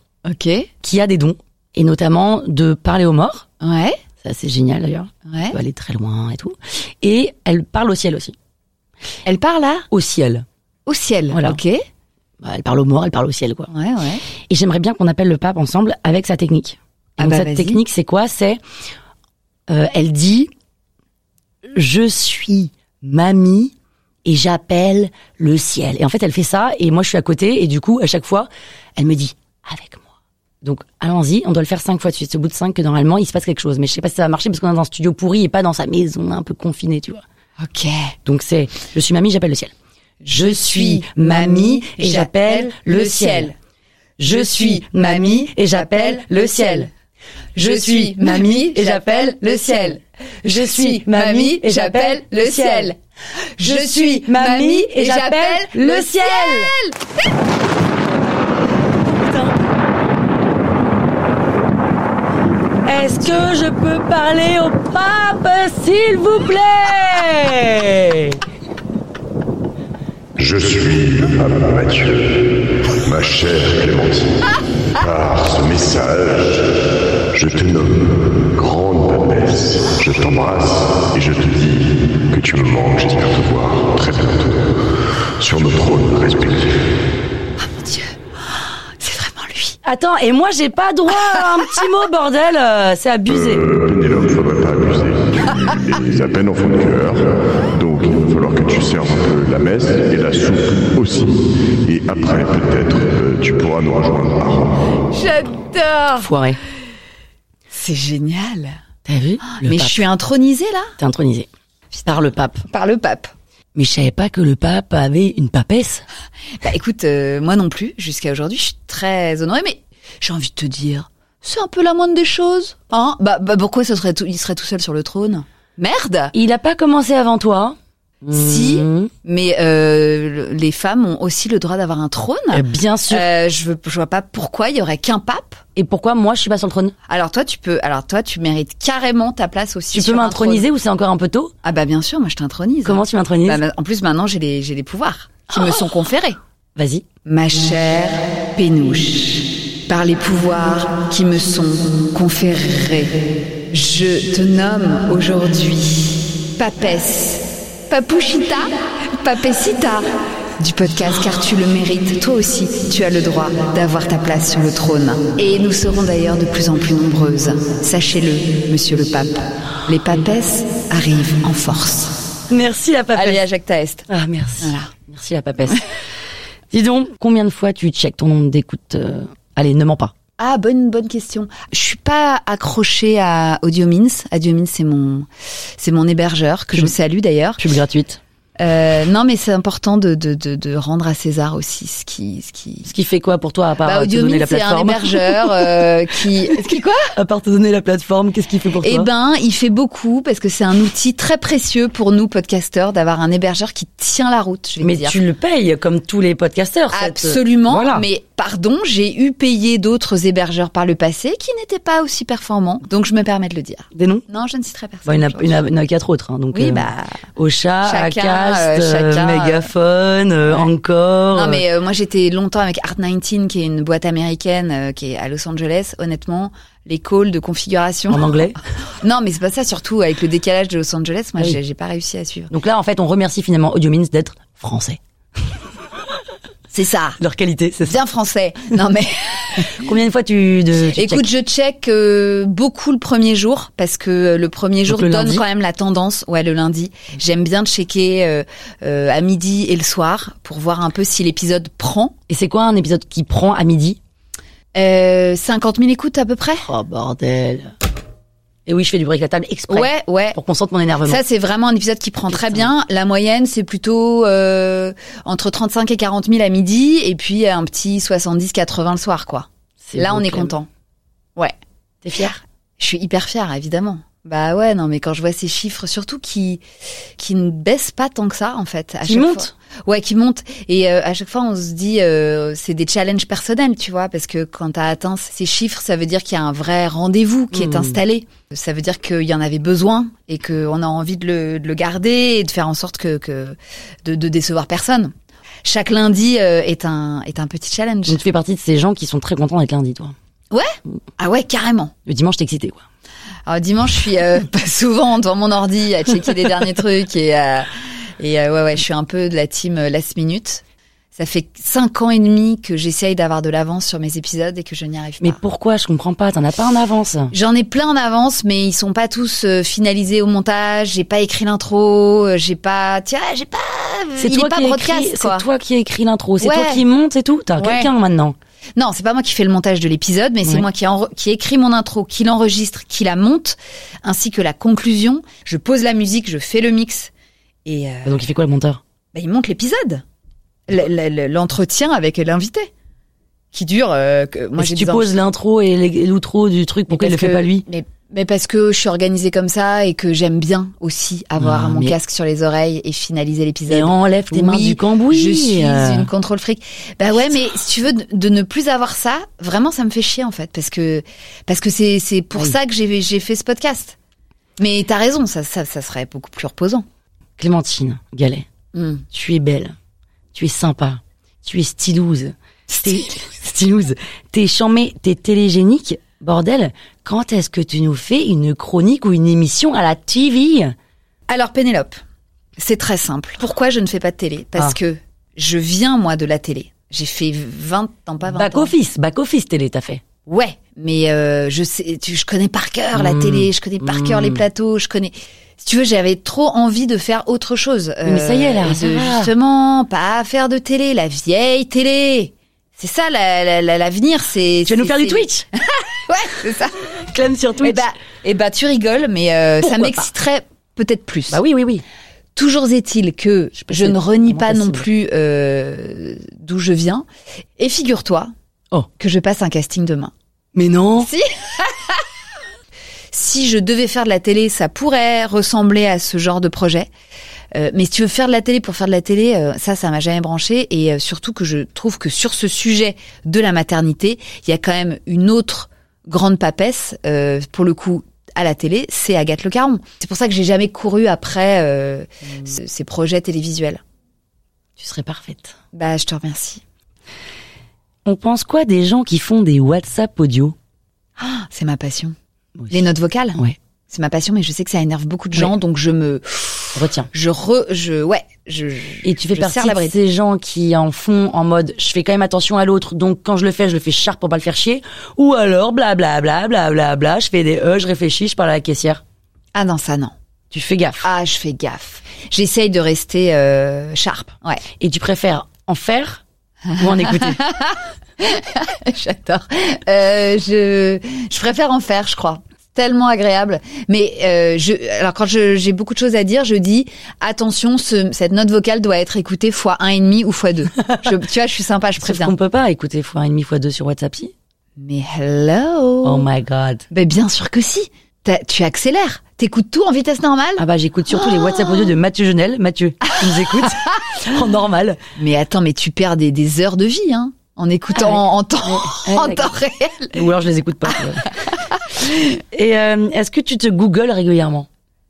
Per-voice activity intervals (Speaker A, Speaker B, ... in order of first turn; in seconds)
Speaker A: 0.2-0.7, 3.6-4.0, 5.3-5.5, 9.2-9.9, 10.9-11.8, 13.7-14.2, 17.2-17.8, 37.6-38.1, 40.2-43.5, 44.2-46.9, 47.6-53.0, 53.6-57.0, 87.6-88.1, 89.0-89.8, 105.1-106.3, 107.7-108.8, 109.5-110.9, 112.7-113.3, 116.6-126.3, 128.3-135.6, 137.1-140.7, 141.6-146.4, 147.2-172.2, 173.1-174.1, 174.6-174.9, 180.4-187.6, 188.6-192.9, 193.8-197.1, 198.8-205.2, 206.9-215.6, 216.5-217.2, 217.8-219.7, 221.3-228.4, 228.9-232.5, 236.7-237.2, 237.8-239.8, 240.8-252.1, 254.7-256.7, 259.7-260.4, 261.0-270.7, 272.2-276.6, 277.2-295.1, 295.6-298.2, 300.5-301.9, 303.5-310.6, 311.1-315.4, 317.3-325.5, 326.4-326.8, 327.6-327.9, 328.8-337.1, 337.6-338.2, 339.1-340.0, 340.7-342.7, 343.5-345.2, 346.9-363.9, 364.6-366.8, 368.7-369.0, 381.3-382.0, 382.6-388.7, 390.2-406.9, 407.6-411.4, 412.4-417.1, 417.6-418.3, 419.0-420.1, 421.0-422.0, 423.1-426.9, 427.5-443.8, 445.7-446.6, 451.2-452.1, 452.7-459.9, 469.5-470.1, 471.0-474.6, 476.7-492.3, 494.8-496.3, 496.9-500.6, 501.2-501.9, 505.1-510.2, 512.0-512.2
Speaker B: 0.8-3.5, 4.2-8.3, 9.9-10.4, 11.3-11.6, 12.4-13.7, 14.5-18.6, 19.7-20.5, 21.7-23.7, 24.2-30.0, 30.6-37.2, 38.2-39.7, 40.3-43.5, 44.2-46.9, 47.6-52.9, 53.6-56.7, 59.1-59.5, 62.8-68.4, 89.8-93.6, 106.2-106.6, 109.0-110.0, 111.0-111.5, 112.0-112.6, 113.7-116.0, 126.3-129.1, 132.5-133.2, 135.8-136.9, 139.9-141.5, 142.8-143.6, 145.5-145.8, 146.8-147.0, 172.5-173.4, 174.1-175.8, 176.7-180.1, 187.6-188.2, 192.8-195.7, 196.5-199.1, 204.8-208.1, 213.9-214.2, 215.1-221.6, 228.1-228.6, 232.5-235.0, 237.2-238.0, 239.7-241.3, 244.9-245.4, 252.3-254.0, 256.6-257.7, 258.6-261.2, 262.3-262.7, 269.8-270.5, 272.0-272.4, 279.1-279.5, 287.5-288.0, 298.1-300.1, 302.1-302.8, 315.2-317.3, 324.2-328.4, 338.0-338.8, 344.6-347.6, 351.4-351.9, 353.7-356.1, 367.4-368.4, 369.1-369.7, 370.3-380.7, 388.3-390.0, 392.9-394.4, 398.0-399.3, 404.7-405.4, 407.1-407.8, 409.6-410.1, 411.3-411.8, 413.6-414.9, 420.5-421.1, 444.8-445.6, 448.0-450.5, 452.6-452.8, 456.7-457.1, 459.0-469.0, 470.5-471.0, 474.8-476.2, 476.8-477.4, 492.0-494.3, 496.0-496.8, 500.6-505.0, 507.9-509.5, 510.1-511.3, 512.5-514.7
Speaker C: 70.3-86.9, 93.3-104.8